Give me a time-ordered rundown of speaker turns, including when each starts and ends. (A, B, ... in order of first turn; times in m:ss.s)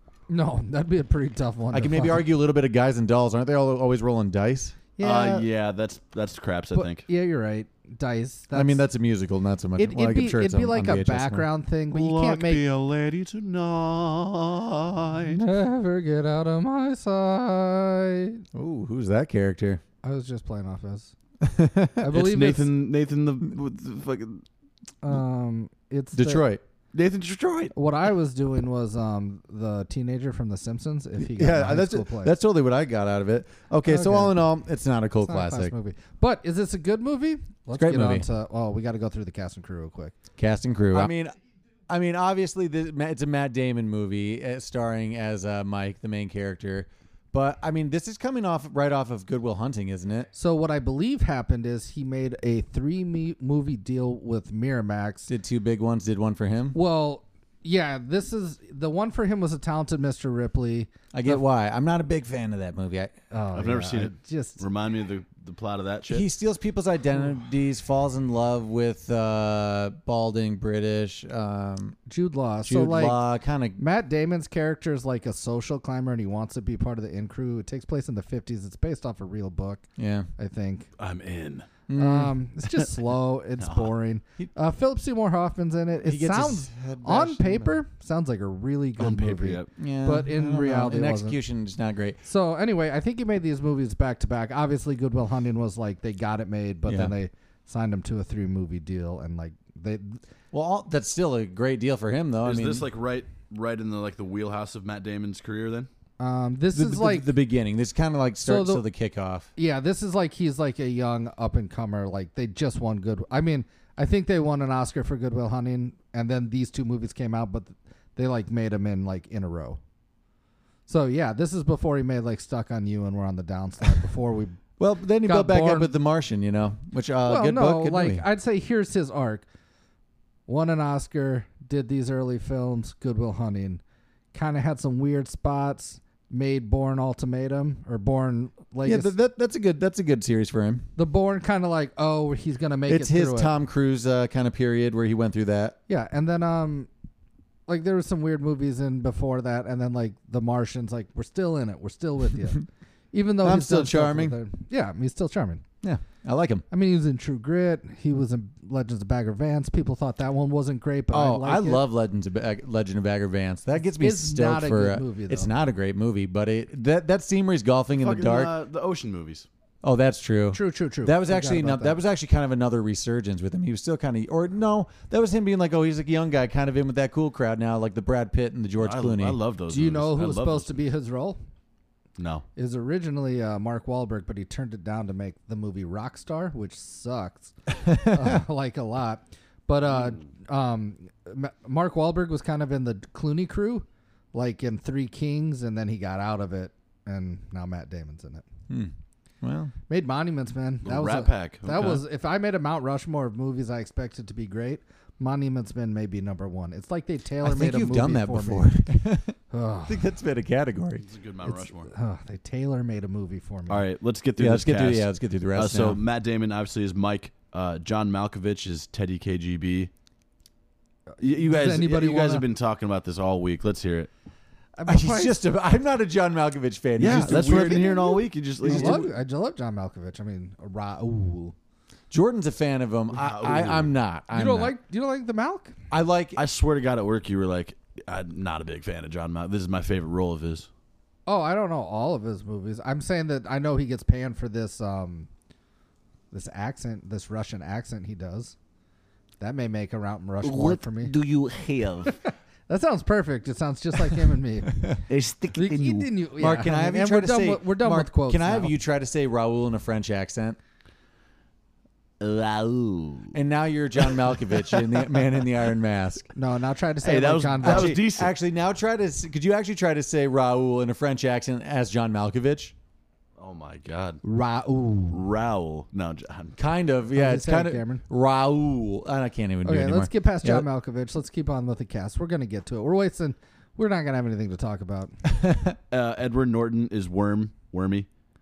0:00.3-0:02.2 A
0:01.7-0:04.8 B
0:05.0-0:05.4 A
0:05.0-0:07.1 C
0:06.7-0:08.9 A
0:08.5-0:11.5 B
0:09.8-0:12.7 A
0:11.9-0:15.4 C
0:15.3-0:18.4 A
0:18.5-0:19.8 B
0:20.0-0:21.1 A
0:21.4-0:22.1 B
0:22.0-0:22.7 A
0:22.1-0:24.4 C
0:25.0-0:26.5 A
0:26.1-0:26.6 B
0:26.9-0:27.7 C
0:27.7-0:32.4 A
0:31.2-0:35.8 B
0:33.9-0:34.4 A
0:35.2-0:40.2 A
0:37.7-0:38.3 B
0:40.4-0:41.4 B
0:41.9-0:50.3 B
0:50.3-0:55.3 A
0:55.3-0:56.8 B
0:56.7-1:01.4 A
1:01.1-1:03.2 B
1:03.3-1:04.6 A
1:03.5-1:06.3 C
1:06.1-1:12.0 B
1:12.1-1:13.2 A
1:12.6-1:13.8 B
1:13.8-1:19.8 A
1:20.0-1:20.3 B
1:20.4-1:20.9 A
1:21.0-1:21.7 C
1:21.9-1:22.4 B
1:21.9-1:31.4 A
1:23.6-1:23.9 C
1:26.0-1:27.8 B
1:29.0-1:29.7 C
1:29.8-1:32.2 B
1:32.2-1:40.2 A
1:36.9-1:37.1 B
1:40.5-1:42.9 B
1:42.4-1:45.9 C
1:46.2-1:47.3 A
1:46.7-1:49.5 B
1:48.4-1:48.8 A
1:49.6-1:59.8 A
2:00.9-2:04.6 A
2:04.8-2:08.3 B
2:05.2-2:05.9 A
2:07.2-2:09.5 A
2:10.5-2:13.8 A
2:14.3-2:19.1 A
2:18.8-2:20.9 B
2:21.0-2:23.6 A
2:22.9-2:25.8 B
2:25.9-2:26.9 A
2:27.7-2:35.6 A
2:33.4-2:34.4 B
2:35.8-2:36.6 B
2:36.7-2:41.8 A
2:41.1-2:48.5 B
2:43.8-2:45.5 A
2:48.0-2:49.5 C
2:49.8-2:59.4 B
2:50.5-2:52.0 A
2:58.8-3:00.8 C
2:59.7-3:01.4 A
3:02.2-3:02.4 C
3:02.6-3:18.4 A
3:07.8-3:08.4 B
3:09.9-3:10.2 C
3:18.7-3:19.7 B
3:19.9-3:28.8 A
3:20.8-3:22.0 C
3:27.4-3:29.4 B
3:29.5-3:30.1 A
3:29.9-3:31.1 B
3:31.0-3:31.9 C
3:31.5-3:33.8 A
3:33.7-3:39.9 C
3:34.4-3:36.0 B
3:41.1-3:42.4 A
3:41.2-3:44.1 C
3:44.8-3:45.4 A
3:44.9-3:49.1 B
3:47.0-3:49.1 C
3:47.1-3:51.6 A
3:52.1-3:54.7 B
3:53.1-3:53.9 C
3:54.3-3:55.8 A
3:55.9-3:56.4 B
3:56.4-4:00.7 C
4:01.3-4:05.3 A
4:06.3-4:08.6 A
4:09.4-4:11.1 A
4:10.4-4:12.2 D
4:12.7-4:15.0 A
4:15.1-4:16.1 D
4:15.5-4:18.7 A
4:16.4-4:20.6 B
4:22.2-4:23.3 D
4:23.3-4:26.3 B
4:26.4-4:28.0 A
4:27.0-4:28.3 C
4:27.6-4:32.7 B
4:33.4-4:34.2 C
4:34.2-4:35.2 A
4:35.1-4:36.6 C
4:36.6-4:40.7 B
4:37.1-4:38.0 A
4:39.6-4:45.2 A
4:45.3-4:45.8 B
4:45.9-4:48.1 C